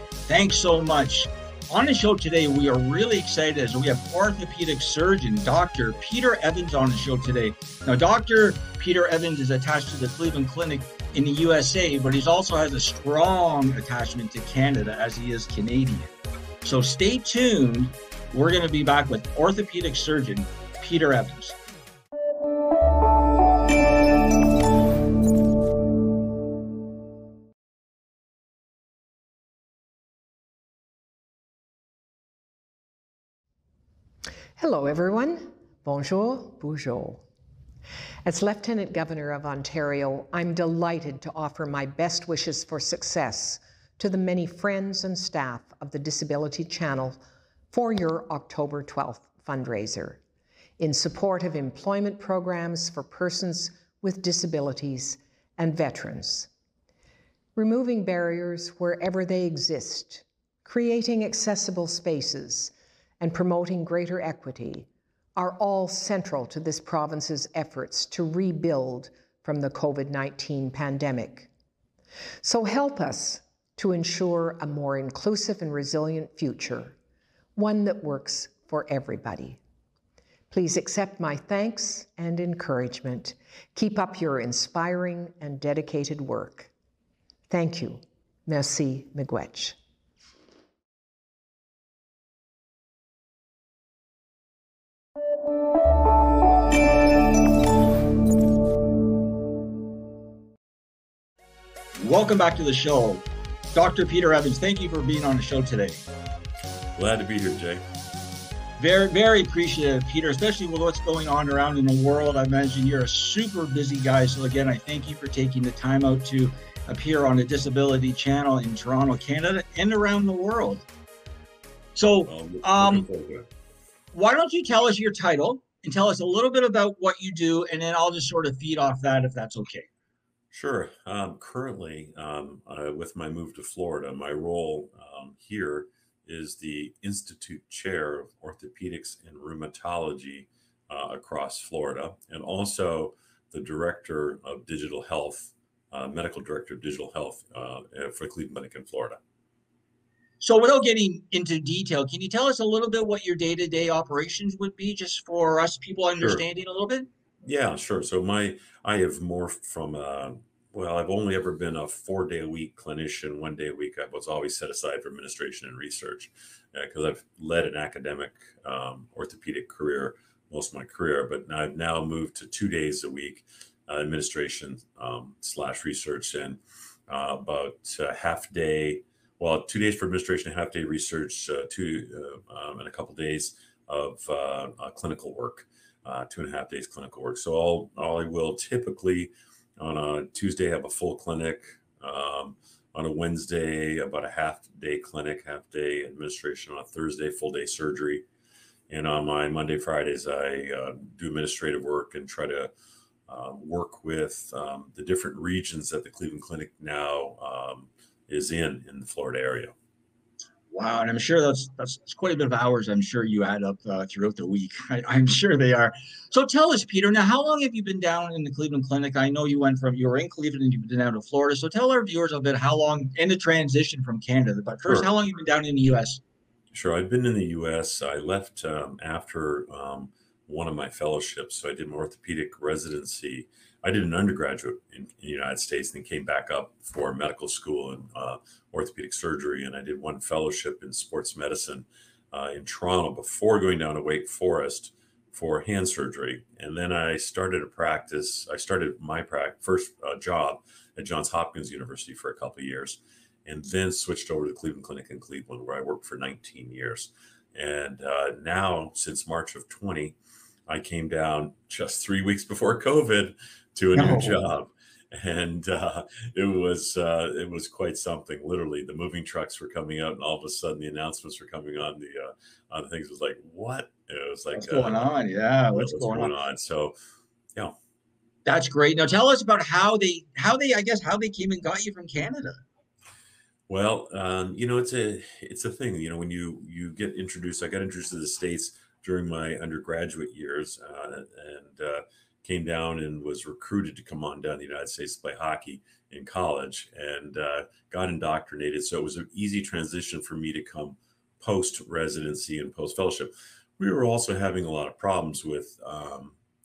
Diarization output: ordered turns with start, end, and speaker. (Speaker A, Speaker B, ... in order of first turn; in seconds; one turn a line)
Speaker A: 0.3-21.6
Speaker B: 34.6-37.2
Speaker B: 38.2-47.2
Speaker B: 47.7-50.2
Speaker B: 50.8-56.5
Speaker B: 57.6-71.5
Speaker B: 72.4-77.0
Speaker B: 77.6-79.6
Speaker B: 80.5-86.7
Speaker B: 87.5-89.8
Speaker A: 102.0-106.0
Speaker C: 107.0-107.8
Speaker A: 108.8-120.8
Speaker A: 122.0-123.1
Speaker C: 122.3-123.5
Speaker A: 124.1-129.9
Speaker C: 130.5-149.2
Speaker A: 150.4-157.1
Speaker C: 156.2-156.4
Speaker C: 157.4-198.2
Speaker C: 198.9-202.7
Speaker C: 203.3-209.8
Speaker A: 210.7-226.2
Speaker C: 226.7-260.2
Speaker C: 260.7-275.1
Speaker A: 263.9-264.5
Speaker A: 274.5-276.3
Speaker C: 275.7-277.0
Speaker A: 278.4-282.6
Speaker C: 283.7-306.4